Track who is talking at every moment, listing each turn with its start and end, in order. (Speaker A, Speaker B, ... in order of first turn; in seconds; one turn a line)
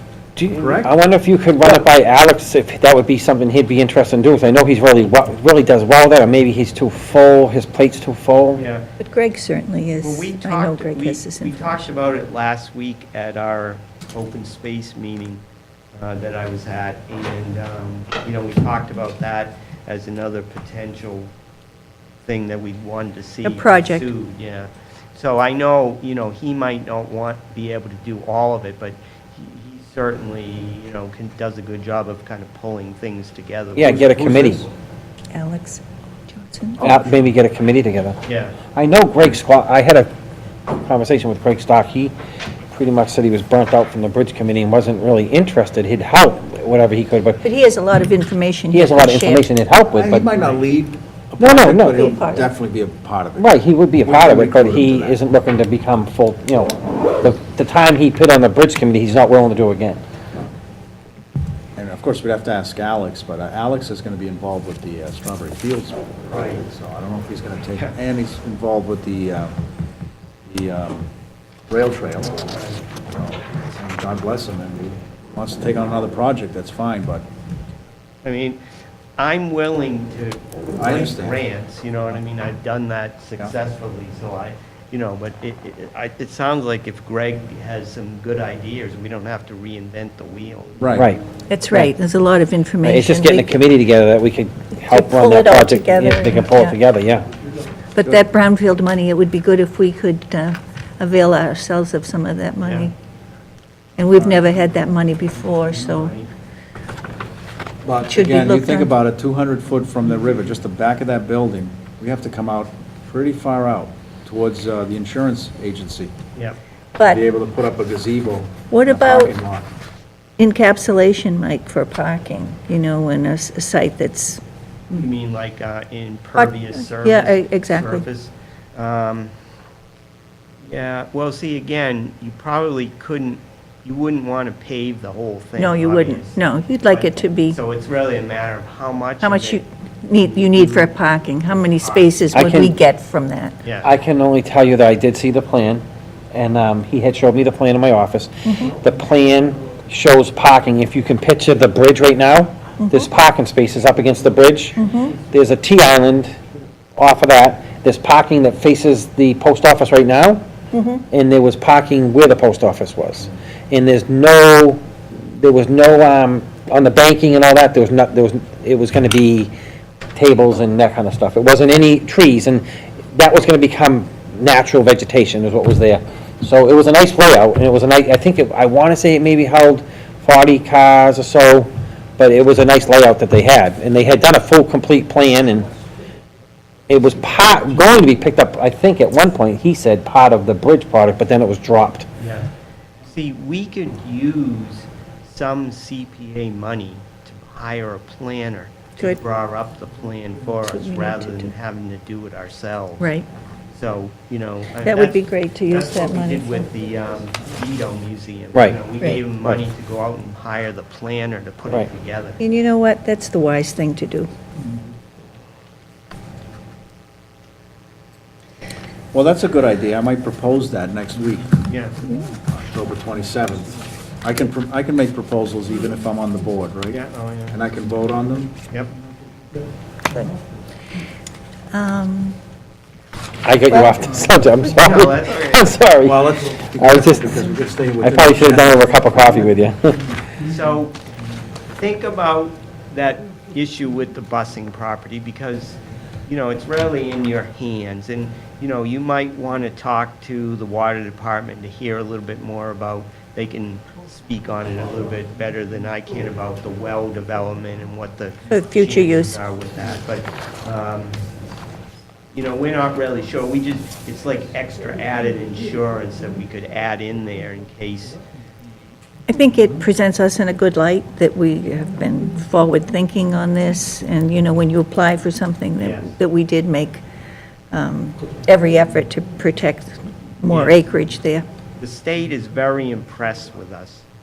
Speaker A: 0.4-8.6
Speaker B: 0.6-0.9
Speaker C: 8.5-8.9
Speaker D: 9.0-11.9
Speaker C: 10.0-15.4
Speaker C: 16.0-21.3
Speaker C: 22.2-34.7
Speaker D: 23.4-24.1
Speaker A: 33.8-34.7
Speaker B: 33.9-34.5
Speaker D: 35.3-36.8
Speaker B: 36.8-37.1
Speaker A: 36.8-38.2
Speaker C: 38.2-38.6
Speaker A: 38.7-40.1
Speaker A: 40.7-42.1
Speaker A: 42.7-47.4
Speaker D: 47.4-49.5
Speaker A: 48.7-50.3
Speaker B: 49.9-55.2
Speaker A: 51.4-52.3
Speaker D: 52.0-52.5
Speaker A: 53.4-60.0
Speaker B: 61.8-69.5
Speaker C: 66.3-66.6
Speaker B: 70.5-71.1
Speaker B: 71.7-77.3
Speaker C: 72.6-72.8
Speaker C: 78.2-78.6
Speaker C: 79.2-91.0
Speaker B: 80.8-81.4
Speaker B: 90.8-91.1
Speaker A: 91.0-91.9
Speaker D: 91.5-93.6
Speaker A: 92.8-97.3
Speaker D: 94.9-96.8
Speaker D: 98.0-102.9
Speaker C: 102.6-102.9
Speaker D: 104.0-106.1
Speaker B: 104.2-104.5
Speaker C: 105.4-106.3
Speaker B: 107.8-116.1
Speaker D: 108.1-108.9
Speaker B: 117.1-119.7
Speaker D: 118.7-119.3
Speaker D: 120.4-124.4
Speaker C: 124.9-129.3
Speaker D: 126.4-128.1
Speaker C: 130.6-139.6
Speaker D: 135.6-137.6
Speaker D: 139.2-143.6
Speaker C: 140.2-140.9
Speaker C: 141.8-142.1
Speaker A: 142.3-142.8
Speaker C: 143.6-143.9
Speaker A: 143.8-156.3
Speaker D: 148.5-148.7
Speaker D: 152.8-153.1
Speaker D: 154.8-155.1
Speaker A: 157.0-160.4
Speaker D: 160.7-161.0
Speaker A: 161.1-169.5
Speaker A: 170.2-185.7
Speaker A: 186.9-192.1
Speaker C: 192.2-192.5
Speaker C: 193.1-203.1
Speaker D: 200.7-201.5
Speaker D: 203.0-203.3
Speaker C: 203.8-212.4
Speaker D: 204.8-206.7
Speaker A: 208.5-208.8
Speaker D: 212.4-214.3
Speaker B: 219.1-221.6
Speaker C: 221.7-222.1
Speaker B: 222.5-227.0
Speaker C: 226.9-227.6
Speaker B: 227.5-228.6
Speaker D: 231.7-232.4
Speaker A: 233.4-237.5
Speaker D: 233.7-234.3
Speaker C: 234.8-235.8
Speaker B: 236.0-239.1
Speaker A: 238.0-240.1
Speaker C: 240.4-241.0
Speaker C: 241.8-261.2
Speaker D: 258.5-259.4
Speaker C: 262.3-268.2
Speaker D: 269.3-277.0
Speaker C: 275.8-276.1
Speaker D: 277.7-281.5
Speaker C: 280.5-280.8
Speaker C: 281.8-284.1